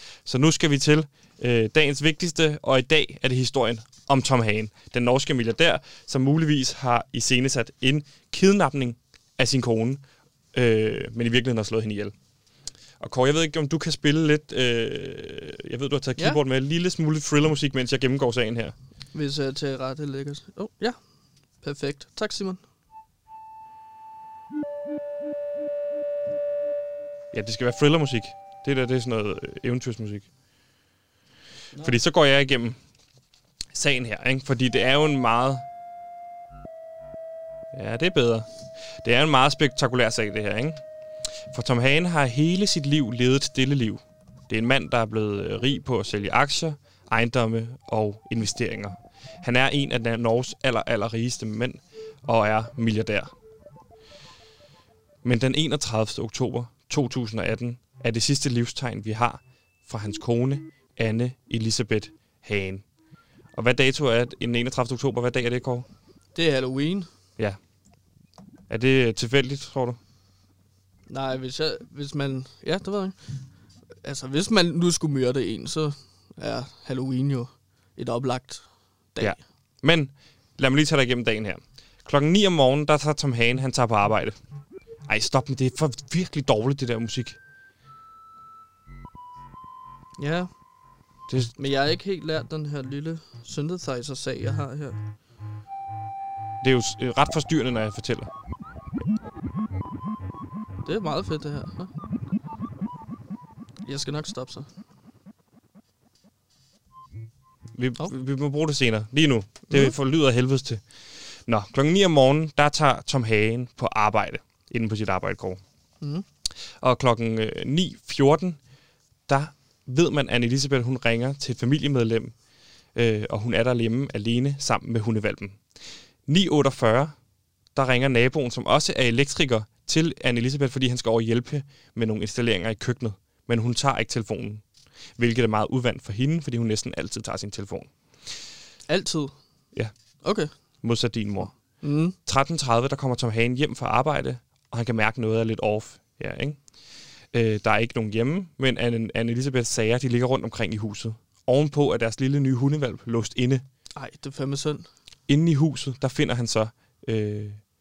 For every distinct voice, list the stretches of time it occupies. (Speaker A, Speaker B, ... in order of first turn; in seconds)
Speaker A: 0.2-10.0, 10.5-12.1, 13.0-18.7, 27.3-30.3, 31.8-32.8, 33.7-35.6, 37.7-38.5, 39.0-40.8, 41.5-53.3, 55.2-62.8, 63.5-65.8, 68.7-70.0, 79.2-84.4, 85.1-87.4, 91.3-91.5, 96.6-98.3, 107.7-110.8, 111.5-115.6, 116.8-118.6, 119.3-122.3, 122.9-125.6, 126.3-127.1, 127.7-134.6, 135.2-137.9, 140.8-141.5, 142.2-146.6, 147.3-153.6, 155.3-157.6
Speaker B: 19.1-21.0, 21.6-22.6, 66.3-67.1, 71.1-73.2, 74.0-78.6, 90.2-90.5, 91.6-95.0, 100.8-101.9, 103.8-104.7, 109.7-109.9, 138.9-139.3, 140.2-140.5, 141.8-142.2, 153.9-154.8